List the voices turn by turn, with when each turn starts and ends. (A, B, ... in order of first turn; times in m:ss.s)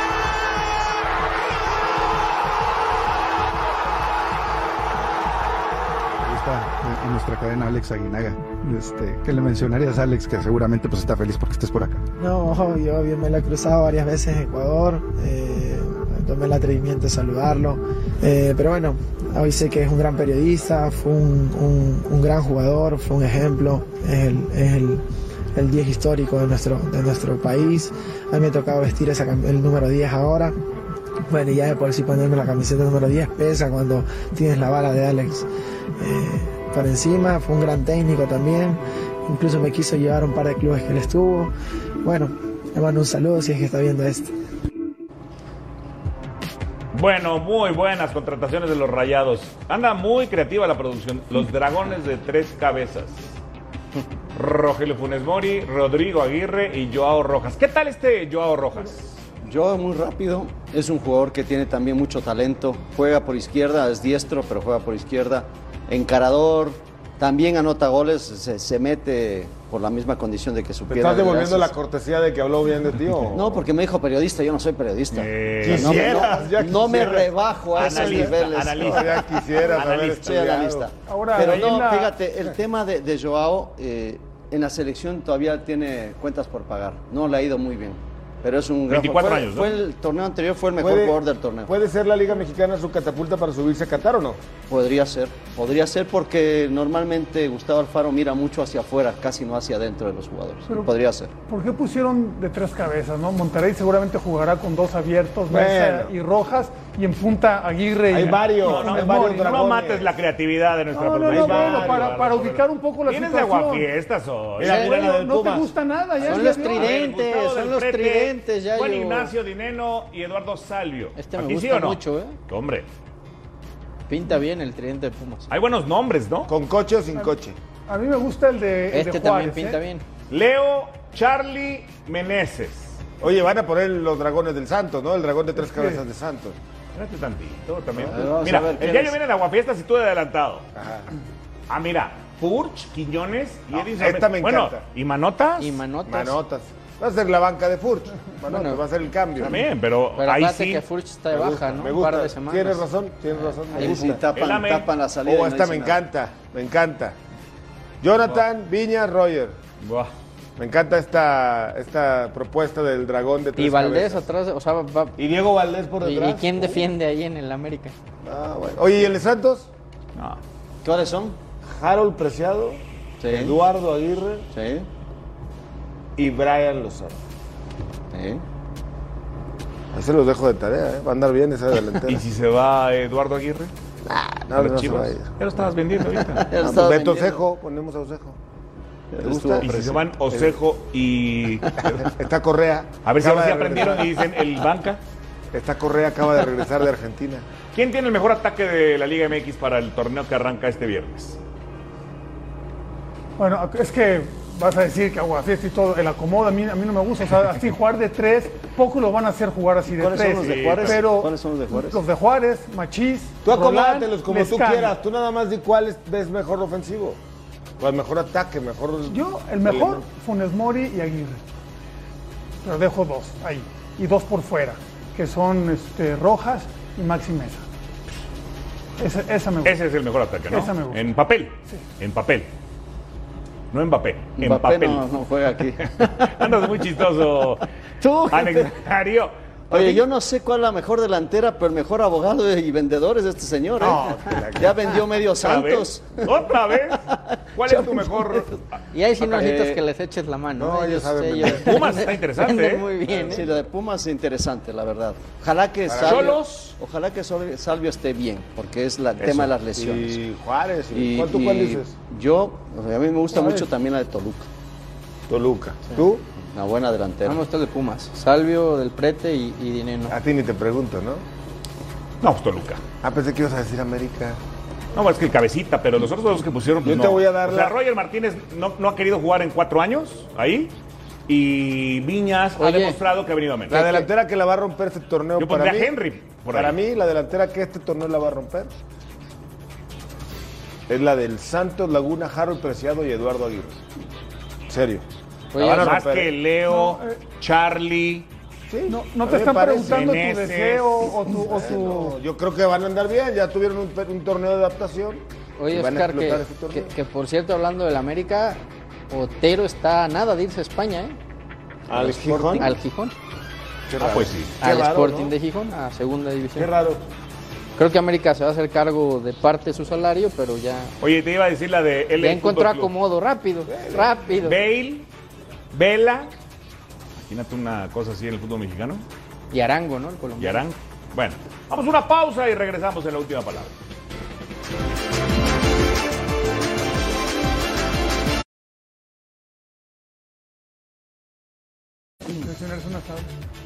0:06.2-0:12.0 A
0:12.2-0:25.0 B
0:25.6-0:30.6 B
0:31.2-0:35.5 B
0:36.0-0:44.3 B
0:46.9-0:53.3 C
0:54.4-0:59.2 C
0:59.4-1:11.7 D
1:10.9-1:13.6 E
1:13.3-1:19.3 D
1:15.1-1:16.2 C
1:15.6-1:20.9 E
1:17.7-1:20.6 C
1:20.0-1:31.7 D
1:21.1-1:22.5 F
1:28.9-1:29.8 C
1:30.8-1:34.4 E
1:34.7-1:41.3 D
1:41.5-1:49.5 F
1:45.5-1:46.1 E
1:48.1-1:50.2 E
1:48.6-1:55.0 C
1:50.9-1:53.9 F
1:51.3-1:52.2 E
1:54.6-1:55.7 E
1:54.6-1:56.9 F
1:56.2-2:02.9 C
1:56.2-1:59.3 G
2:01.2-2:02.4 G
2:04.1-2:05.5 G
2:05.5-2:06.5 C
2:06.5-2:07.6 E
2:07.9-2:09.8 F
2:08.9-2:10.0 G
2:10.3-2:13.0 C
2:13.2-2:16.6 E
2:15.6-2:16.0 F
2:16.9-2:20.7 C
2:18.0-2:19.2 D
2:20.8-2:21.1 E
2:21.7-2:25.8 C
2:23.7-2:24.8 E
2:25.6-2:26.4 G
2:26.1-2:29.6 E
2:28.5-2:28.8 G
2:29.4-2:30.8 C
2:30.2-2:32.8 G
2:31.3-2:34.2 E
2:33.7-2:34.0 G
2:33.8-2:36.0 D
2:34.3-2:34.9 C
2:35.2-2:37.2 E
2:38.0-2:39.6 E
2:39.8-2:40.1 C
2:40.6-2:44.3 E
2:43.6-2:45.2 G
2:45.2-2:46.9 E
2:46.0-2:48.0 G
2:48.2-2:49.7 E
2:50.2-2:50.4 C
2:50.8-2:51.4 D
2:51.7-2:54.5 E
2:53.2-2:53.6 D
2:54.5-2:54.9 D
2:56.2-2:57.2 E
2:58.1-2:58.4 D
2:59.9-3:02.2 E
3:02.0-3:03.7 C
3:04.1-3:05.3 E
3:04.6-3:06.5 C
3:06.3-3:07.4 D
3:06.6-3:08.4 E
3:09.1-3:10.6 D
3:09.2-3:09.7 E
3:09.6-3:12.1 C
3:12.1-3:14.2 E
3:13.0-3:15.0 C
3:15.5-3:17.5 E
3:17.7-3:21.4 C
3:23.4-3:35.0 F
3:29.9-3:32.0 D
3:30.4-3:31.0 C
3:33.4-3:37.2 E
3:37.8-3:40.0 E
3:39.1-3:41.4 F
3:42.6-3:47.7 F
3:49.0-3:49.8 F
3:49.6-3:52.5 C
3:50.5-3:51.8 F
3:53.7-3:55.1 C
3:54.4-3:56.7 D
3:56.2-3:57.7 C
3:58.0-3:58.7 D
3:58.3-4:00.1 C
3:59.7-4:08.6 D
4:03.8-4:04.9 E
4:03.8-4:04.4 C
4:05.3-4:07.0 C
4:07.6-4:09.6 C
4:08.9-4:13.4 G
4:09.3-4:09.8 D
4:10.6-4:11.7 E
4:11.4-4:12.9 C
4:13.1-4:13.6 E
4:13.2-4:20.2 D
4:15.9-4:16.4 E
4:16.0-4:16.8 C
4:19.2-4:19.5 C
4:19.8-4:22.0 E
4:20.9-4:24.5 D
4:23.3-4:23.6 F
4:25.3-4:26.2 E
4:26.4-4:27.4 D
4:27.2-4:30.2 G
4:30.1-4:31.2 E
4:32.2-4:32.8 C
4:33.0-4:34.4 E
4:35.0-4:40.7 C
4:36.8-4:37.8 E
4:41.3-4:43.8 C
4:42.6-4:43.0 G
4:43.7-4:46.0 E
4:43.7-4:44.1 G
4:45.4-4:46.8 C
4:46.5-4:48.7 E
4:50.9-4:53.8 E
4:54.7-4:56.3 E
4:55.5-4:55.9 G
4:55.6-4:58.3 C
4:56.7-4:57.2 F
4:58.7-5:00.2 E
4:58.9-5:02.2 F
4:59.7-5:01.2 C
5:01.2-5:06.9 E
5:05.6-5:11.2 G
5:11.9-5:12.8 E
5:11.9-5:12.8 D
5:12.6-5:13.1 G
5:13.9-5:15.3 E
5:14.0-5:14.5 C
5:14.6-5:16.7 G
5:16.6-5:17.0 E
5:17.8-5:20.9 G
5:21.0-5:22.9 C
5:22.2-5:24.6 G
5:23.7-5:24.2 E
5:24.4-5:25.1 C
5:25.7-5:26.3 C
5:27.3-5:29.0 C
5:29.5-5:30.6 G
5:30.4-5:33.8 C
5:42.4-5:43.3 F